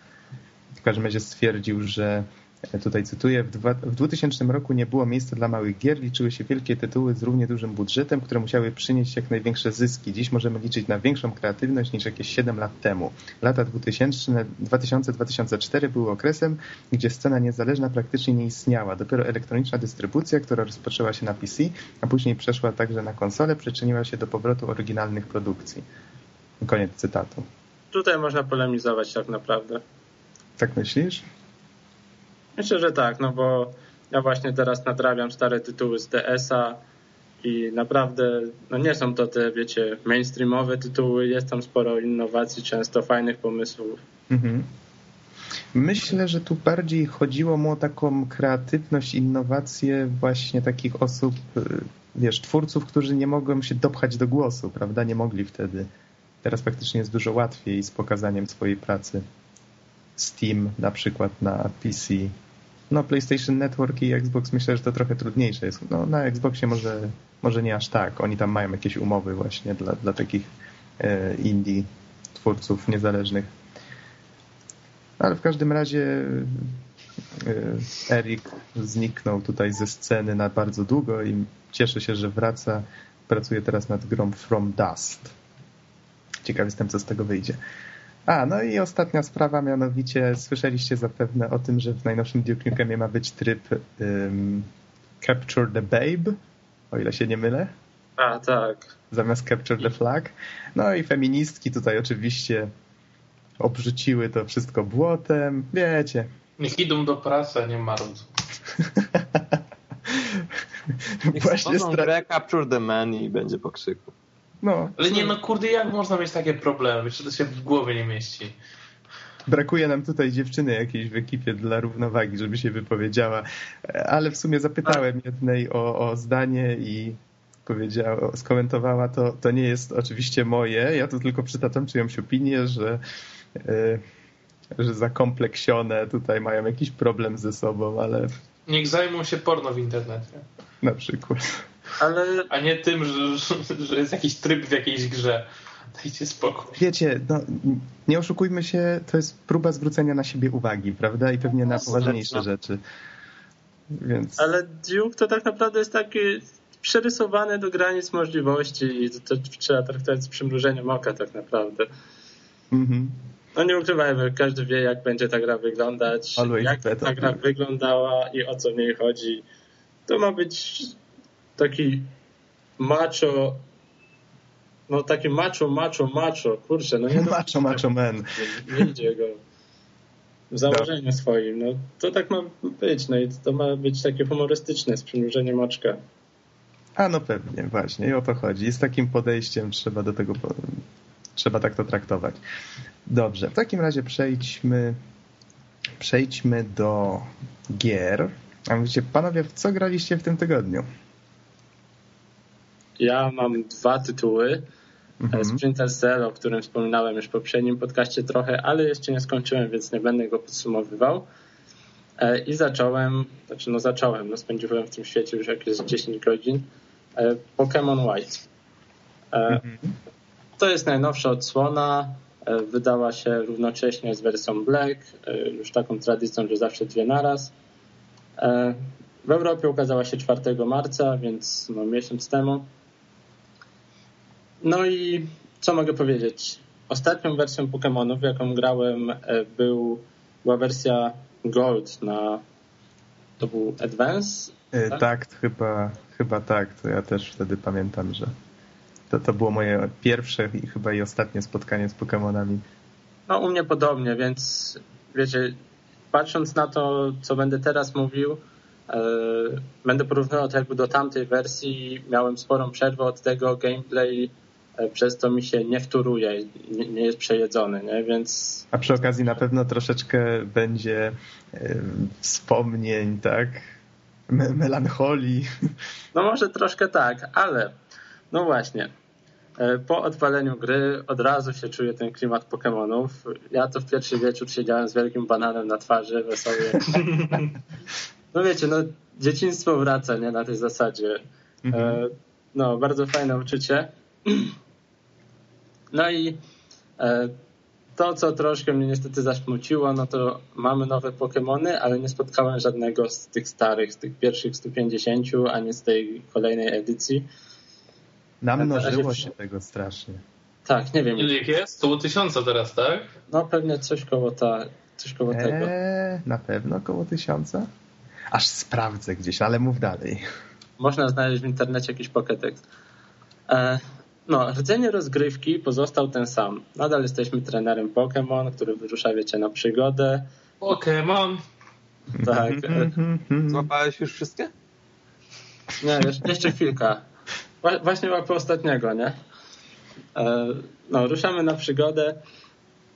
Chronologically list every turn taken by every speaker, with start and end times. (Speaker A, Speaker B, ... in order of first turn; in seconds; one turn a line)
Speaker A: 0.8-25.9
Speaker A: 26.6-27.4
Speaker B: 27.9-29.8
Speaker A: 30.6-31.2
Speaker B: 32.6-36.8
Speaker B: 37.4-44.0
Speaker A: 44.3-44.7
Speaker A: 45.7-55.9
Speaker A: 56.4-59.2
Speaker A: 60.2-62.3
Speaker A: 62.9-73.5
Speaker A: 75.2-76.7
Speaker A: 77.4-85.3
Speaker A: 86.4-87.6
Speaker A: 88.3-94.7
Speaker A: 95.2-96.4
Speaker A: 96.9-97.7
Speaker B: 98.2-98.9
Speaker A: 99.1-102.7
Speaker A: 103.6-106.3
Speaker C: 106.6-108.3
Speaker A: 108.8-112.1
Speaker D: 111.3-114.1
Speaker A: 114.6-115.3
Speaker C: 115.0-118.5
Speaker A: 119.5-133.0
Speaker A: 133.6-134.0
Speaker A: 134.8-138.3
Speaker C: 138.7-140.4
Speaker A: 140.8-141.6
Speaker B: 142.0-142.5
Speaker C: 142.5-146.8
Speaker A: 146.8-152.8
Speaker D: 151.8-152.4
Speaker A: 153.9-154.5
Speaker B: 154.4-161.9
Speaker A: 162.7-163.2
Speaker B: 163.6-169.4
Speaker A: 166.4-167.4
Speaker B: 170.1-171.0
Speaker B: 171.6-172.1
Speaker B: 172.8-173.6
Speaker B: 174.9-177.8
Speaker A: 177.1-178.9
Speaker B: 178.5-179.4
Speaker B: 180.5-186.0
Speaker A: 187.0-190.8
Speaker A: 191.4-192.4
Speaker A: 193.1-195.0
Speaker A: 196.0-200.9
Speaker B: 203.0-204.7
Speaker A: 205.2-205.6
Speaker B: 205.3-211.3
Speaker B: 212.2-218.4
Speaker B: 219.3-219.6
Speaker A: 219.5-219.9
Speaker B: 220.6-227.5
Speaker B: 228.4-232.7
Speaker B: 234.6-242.4
Speaker B: 243.4-245.0
Speaker A: 244.7-248.3
Speaker A: 249.1-252.6
Speaker B: 253.3-255.6
Speaker B: 256.1-268.7
Speaker A: 268.7-273.7
Speaker A: 274.3-275.5
Speaker B: 276.1-277.8
Speaker B: 278.3-278.9
Speaker B: 279.6-287.5
Speaker B: 288.3-294.6
Speaker A: 291.6-292.0
Speaker B: 295.9-296.4
Speaker B: 297.0-297.4
Speaker B: 298.0-307.3
Speaker A: 308.4-310.2
Speaker B: 308.6-309.3
Speaker B: 310.7-311.4
Speaker C: 311.2-313.1
Speaker B: 313.3-315.7
Speaker A: 315.3-317.7
Speaker A: 318.3-320.2
Speaker B: 320.8-322.6
Speaker B: 323.5-330.3
Speaker C: 330.6-331.4
Speaker A: 332.1-333.7
Speaker B: 332.2-332.9
Speaker D: 333.5-334.5
Speaker B: 335.8-337.0
Speaker B: 337.6-339.2
Speaker B: 340.2-342.2